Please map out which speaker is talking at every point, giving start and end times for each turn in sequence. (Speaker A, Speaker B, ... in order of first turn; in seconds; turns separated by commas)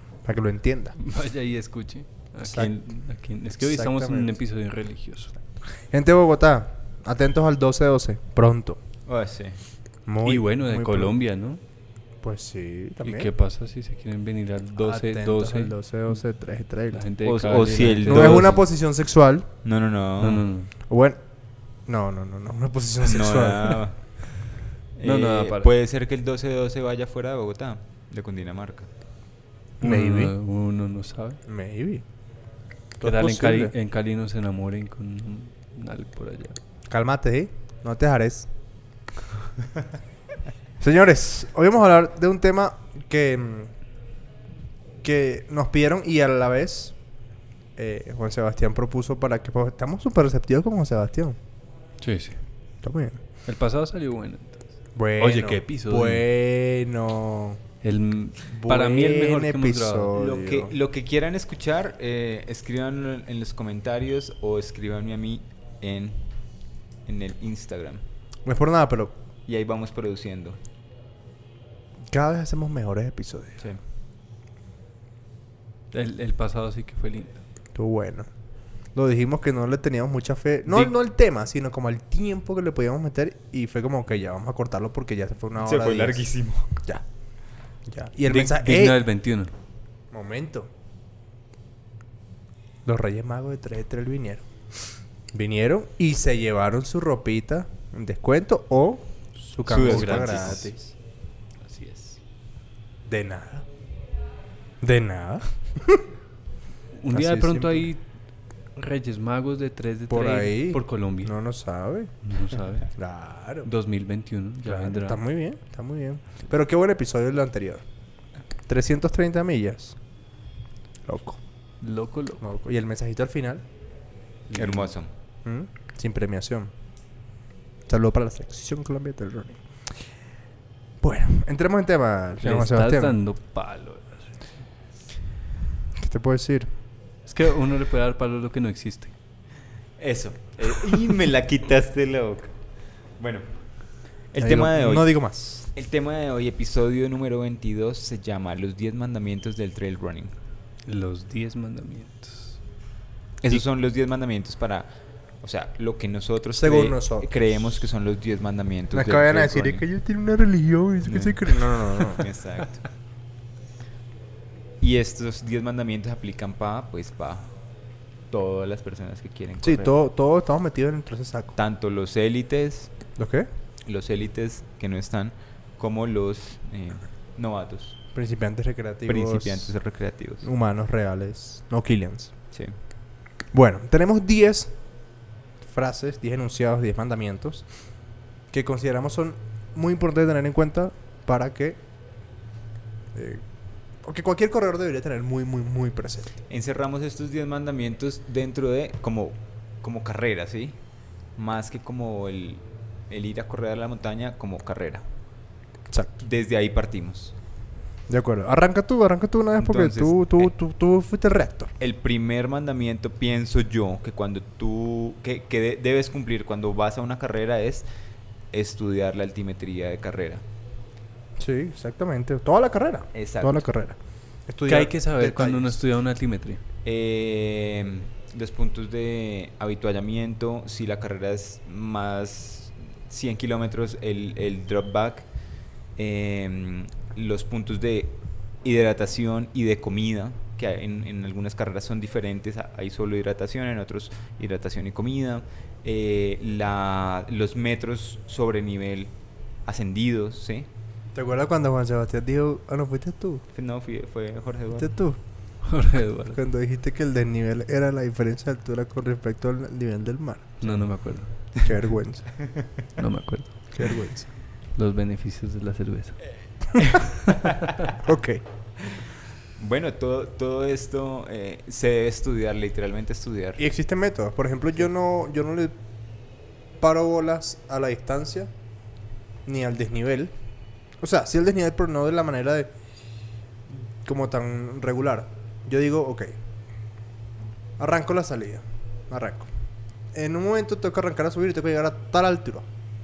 Speaker A: 0.2-0.9, Speaker B: 1.0-5.3, Speaker A: 2.4-2.7, Speaker A: 3.6-4.3, Speaker A: 5.7-8.8, Speaker C: 9.1-9.6, Speaker A: 10.1-11.1, Speaker B: 10.2-11.6, Speaker A: 12.2-13.3, Speaker B: 13.0-16.2, Speaker A: 14.7-17.0, Speaker B: 16.9-18.6, Speaker C: 17.2-18.6, Speaker A: 18.0-19.5, Speaker C: 19.6-20.4, Speaker B: 20.2-20.7, Speaker A: 20.9-21.2, Speaker A: 21.9-23.8, Speaker C: 23.0-24.0, Speaker C: 24.9-28.9, Speaker B: 25.0-25.7, Speaker A: 29.8-30.3, Speaker B: 29.8-31.4, Speaker A: 31.4-32.0, Speaker A: 33.0-33.7, Speaker B: 33.0-36.6, Speaker A: 36.9-38.5, Speaker A: 40.8-43.7, Speaker A: 45.0-46.9, Speaker A: 47.8-51.4, Speaker B: 52.0-52.4, Speaker A: 52.8-53.2, Speaker B: 53.5-56.3, Speaker A: 54.9-57.6, Speaker B: 57.8-60.1, Speaker A: 58.5-60.7, Speaker C: 60.1-66.2, Speaker C: 67.0-68.0, Speaker A: 68.4-69.1, Speaker C: 69.5-70.6, Speaker A: 72.1-73.6, Speaker B: 75.9-77.4, Speaker A: 77.7-78.3, Speaker A: 78.9-86.2, Speaker B: 80.7-80.9, Speaker C: 85.6-86.7, Speaker A: 87.8-89.0, Speaker B: 88.2-89.5, Speaker A: 90.1-90.7, Speaker A: 92.8-94.5, Speaker A: 95.3-100.9, Speaker C: 99.6-100.7, Speaker B: 99.9-100.5, Speaker B: 101.6-102.2, Speaker A: 103.0-103.7, Speaker A: 104.8-106.0, Speaker B: 107.0-108.0, Speaker A: 107.1-107.9, Speaker B: 108.7-111.3, Speaker A: 110.1-112.1, Speaker B: 112.2-112.9, Speaker A: 112.9-113.7, Speaker B: 113.6-115.2, Speaker A: 114.7-117.8, Speaker A: 118.7-120.0, Speaker A: 121.0-121.4, Speaker B: 121.8-122.4, Speaker A: 122.4-123.6, Speaker B: 124.5-124.9, Speaker C: 124.5-125.1, Speaker A: 125.4-126.7, Speaker A: 127.9-129.6, Speaker A: 131.0-133.2, Speaker B: 132.4-134.3, Speaker A: 135.9-136.7, Speaker B: 137.3-139.1, Speaker C: 140.0-142.5, Speaker C: 143.2-150.3, Speaker A: 144.4-145.7, Speaker B: 150.8-152.6, Speaker C: 153.4-159.8, Speaker A: 156.6-157.3, Speaker A: 158.9-162.2, Speaker C: 161.0-162.9, Speaker C: 164.8-167.5, Speaker C: 168.3-169.9, Speaker A: 169.6-171.6, Speaker C: 171.6-172.9, Speaker A: 173.2-173.5, Speaker C: 173.8-178.0, Speaker A: 178.1-179.7, Speaker C: 179.1-180.5, Speaker A: 180.4-182.3, Speaker A: 183.5-184.7, Speaker A: 185.6-187.7, Speaker A: 188.5-191.8, Speaker A: 193.1-193.4, Speaker A: 194.0-196.3, Speaker C: 196.5-200.8, Speaker C: 201.3-205.0, Speaker C: 206.2-207.3, Speaker A: 208.1-211.7, Speaker C: 209.6-210.5, Speaker C: 211.8-217.9, Speaker C: 218.5-220.4, Speaker A: 221.4-225.8, Speaker C: 223.1-223.7, Speaker B: 224.7-226.6, Speaker C: 226.8-235.3, Speaker C: 235.9-249.1, Speaker C: 249.6-250.7, Speaker A: 251.1-253.4, Speaker C: 253.5-254.9, Speaker A: 254.7-255.2, Speaker B: 255.6-256.4, Speaker A: 256.3-260.7, Speaker B: 260.6-261.4, Speaker A: 261.6-262.3, Speaker B: 263.0-263.7, Speaker A: 263.7-264.3, Speaker B: 264.7-266.2, Speaker C: 266.8-267.1, Speaker A: 268.0-268.4, Speaker C: 268.8-273.6, Speaker A: 273.6-275.8, Speaker A: 276.8-278.5, Speaker A: 279.4-280.3, Speaker A: 281.0-282.7, Speaker A: 283.7-286.4, Speaker A: 287.8-289.5, Speaker A: 290.1-292.7